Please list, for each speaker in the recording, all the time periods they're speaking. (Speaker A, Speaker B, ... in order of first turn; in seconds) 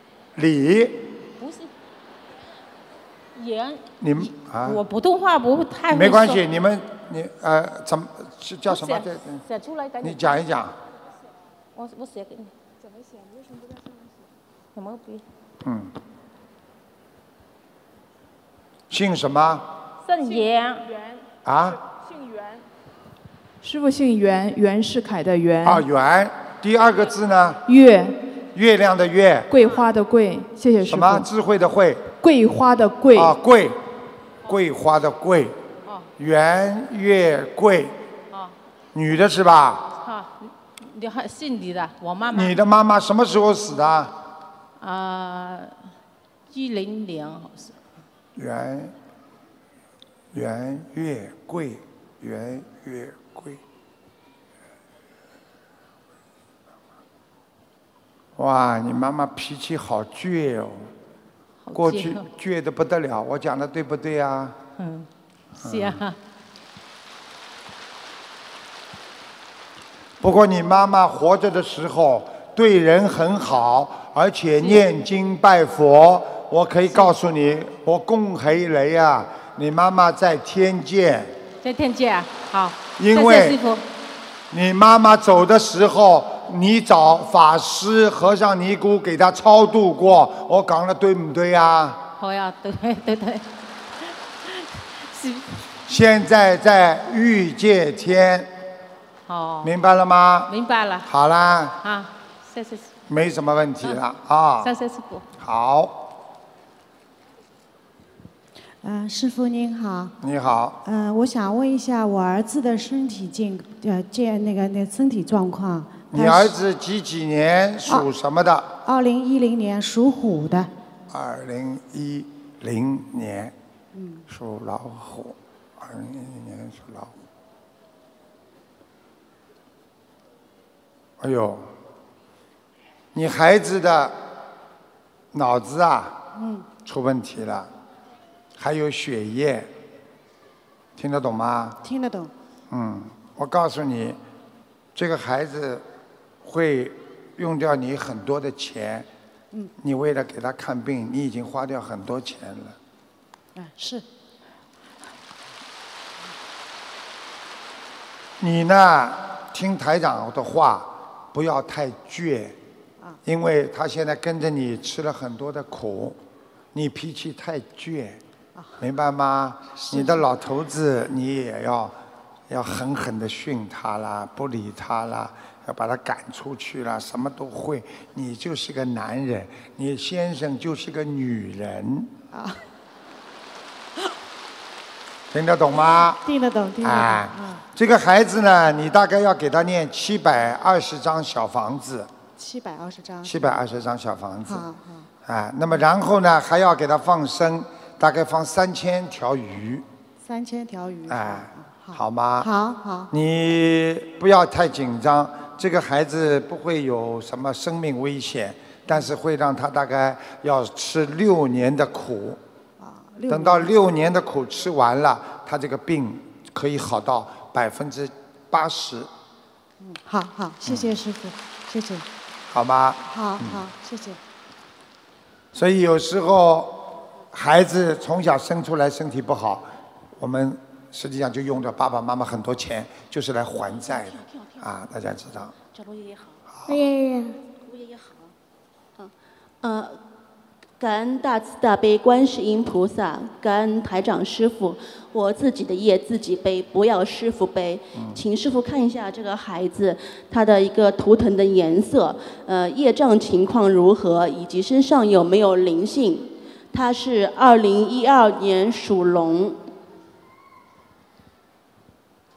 Speaker A: 0.3-1.1, 4.0-4.8, 5.9-9.4, 10.0-10.8, 15.6-15.9, 18.9-19.7, 21.4-21.8, 25.6-27.6, 28.5-29.5, 30.8-32.0, 33.1-33.8, 34.4-35.5, 36.2-38.0, 38.9-39.9, 42.3-44.1, 48.4-48.9, 50.3-53.6, 58.4-60.9, 61.7-64.6, 65.6-66.0, 70.2-81.3, 83.0-83.6, 84.5-92.0, 95.9-98.5, 99.6-100.5, 101.0-101.8, 103.1-104.7, 105.4-106.0, 110.2-110.8, 116.1-118.7, 121.1-123.5, 124.3-127.2, 131.2-131.7, 133.1-134.2, 135.3-136.2, 136.8-137.7, 138.6-139.7, 141.0-141.8, 142.7-144.2, 144.9-145.8, 146.4-149.1, 149.8-152.8, 158.4-162.6, 163.2-166.2, 166.7-168.2, 168.8-171.9, 172.5-182.1, 185.3-186.2, 186.8-192.1, 193.2-194.6, 195.2-199.8, 201.1-202.5, 203.1-212.4, 213.3-219.1, 222.5-223.6, 225.5-235.5, 236.5-236.8
Speaker B: 1.4-1.7, 3.3-3.8, 4.6-6.4, 8.7-10.3, 11.7-12.5, 14.7-15.2, 20.0-21.1, 40.0-42.5, 44.8-45.7, 46.5-47.7, 61.6-62.2, 64.8-66.2, 81.6-83.8, 92.2-93.5, 94.5-95.6, 99.3-99.7, 100.5-101.1, 101.8-102.9, 104.6-105.2
Speaker C: 23.6-25.8, 27.6-28.2, 29.5-31.3, 32.2-33.4
Speaker D: 108.8-110.1, 110.8-116.5, 118.8-120.7, 123.9-124.2, 136.3-136.7, 141.8-142.3, 153.5-154.0, 169.7-170.2, 182.3-182.6, 186.2-187.6, 192.3-193.4, 194.4-195.1, 200.2-203.1, 212.8-213.7, 219.8-222.0, 223.1-224.2
Speaker E: 237.7-238.1, 239.0-240.0, 240.8-259.6